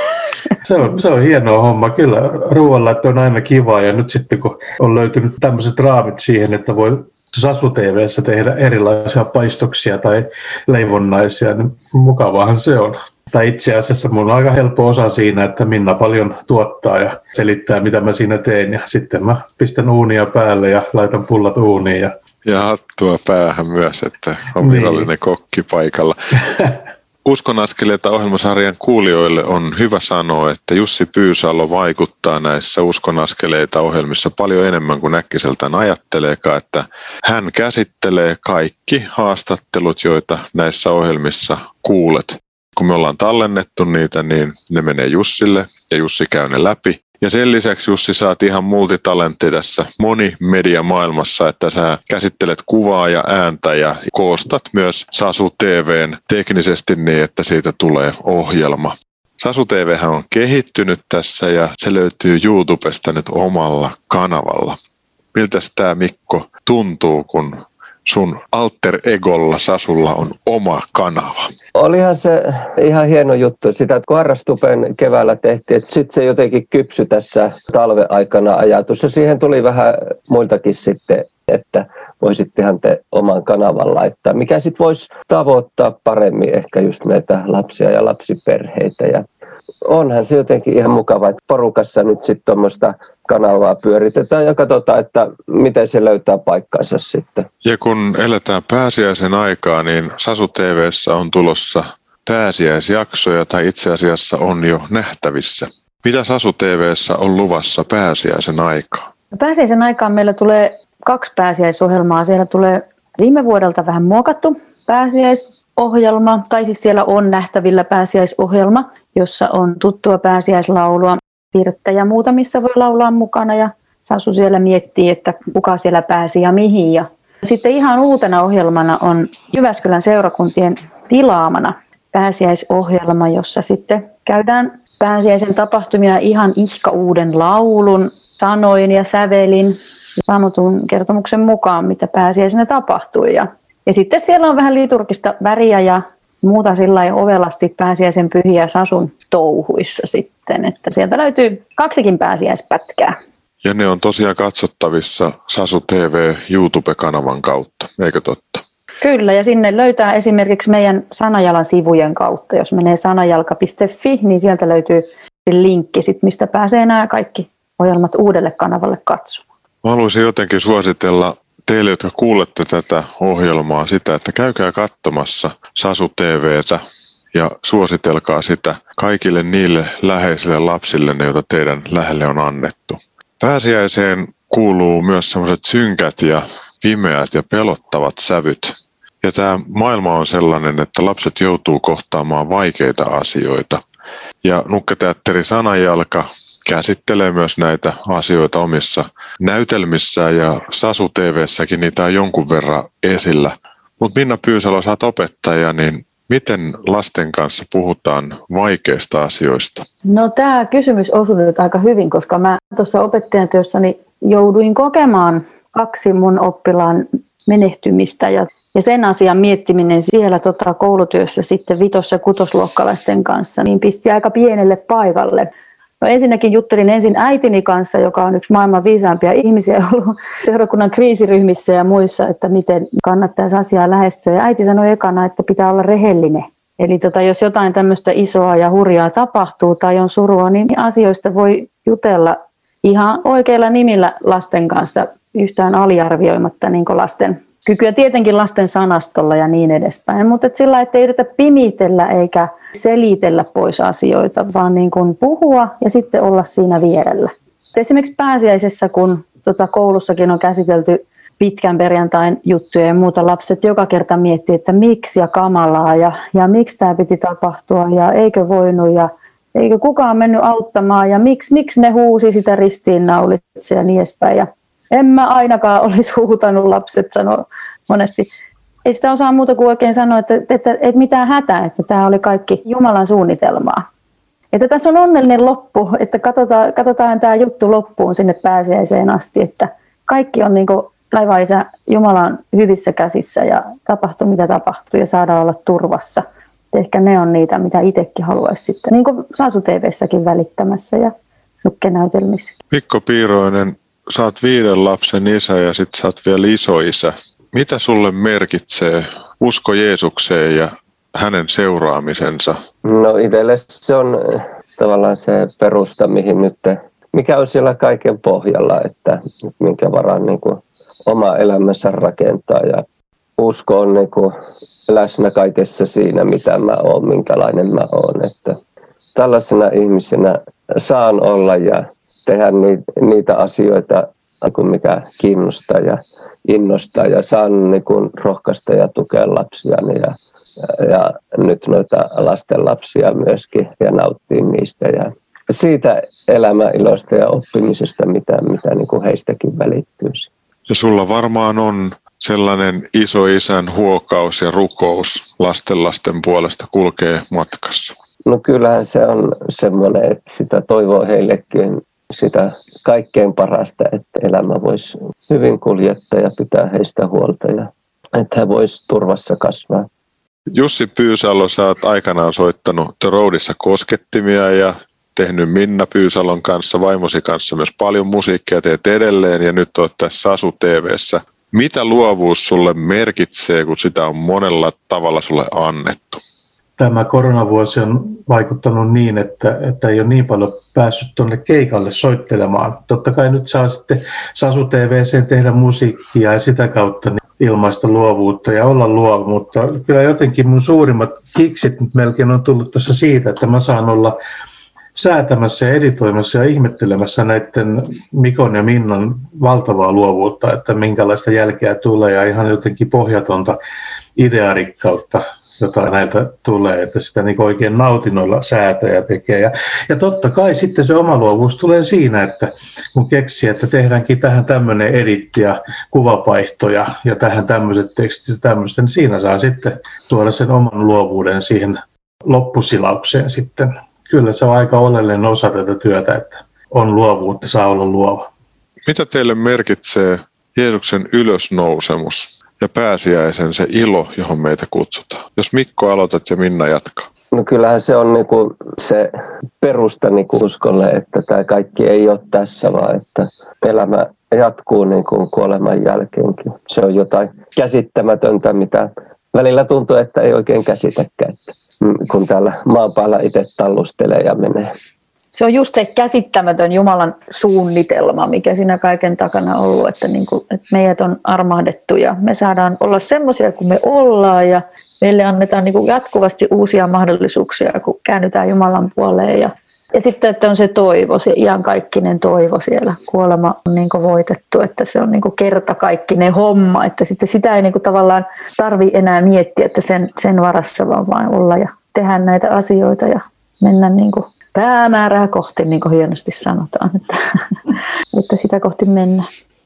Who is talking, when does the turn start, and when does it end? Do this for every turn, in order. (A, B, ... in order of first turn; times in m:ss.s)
0:00.6-0:22.1 A
0:22.4-0:26.2 B
0:24.6-0:25.1 A
0:27.2-1:04.8 B
1:05.3-1:11.5 B
1:11.8-1:29.2 C
1:29.8-1:37.5 C
1:37.6-1:49.1 B
1:49.3-2:33.2 D
2:33.6-2:38.6 B
2:39.0-2:49.4 D
2:49.8-2:56.8 B
2:57.3-3:13.8 B
3:14.4-3:29.8 B
3:30.1-4:38.3 D
4:38.8-4:43.8 D
4:44.5-5:02.5 D
5:02.7-5:12.6 B
5:12.8-5:22.8 C
5:23.4-5:24.3 C
5:24.9-5:28.6 C
5:29.1-5:50.3 C
5:50.7-5:57.9 B
5:58.2-6:09.9 C
6:10.5-6:26.2 B
6:26.8-6:44.2 A
6:45.0-6:53.6 A
6:54.2-7:18.3 A
7:18.8-7:27.1 B
7:27.3-7:44.7 C
7:45.3-8:17.5 D
8:18.1-8:19.2 D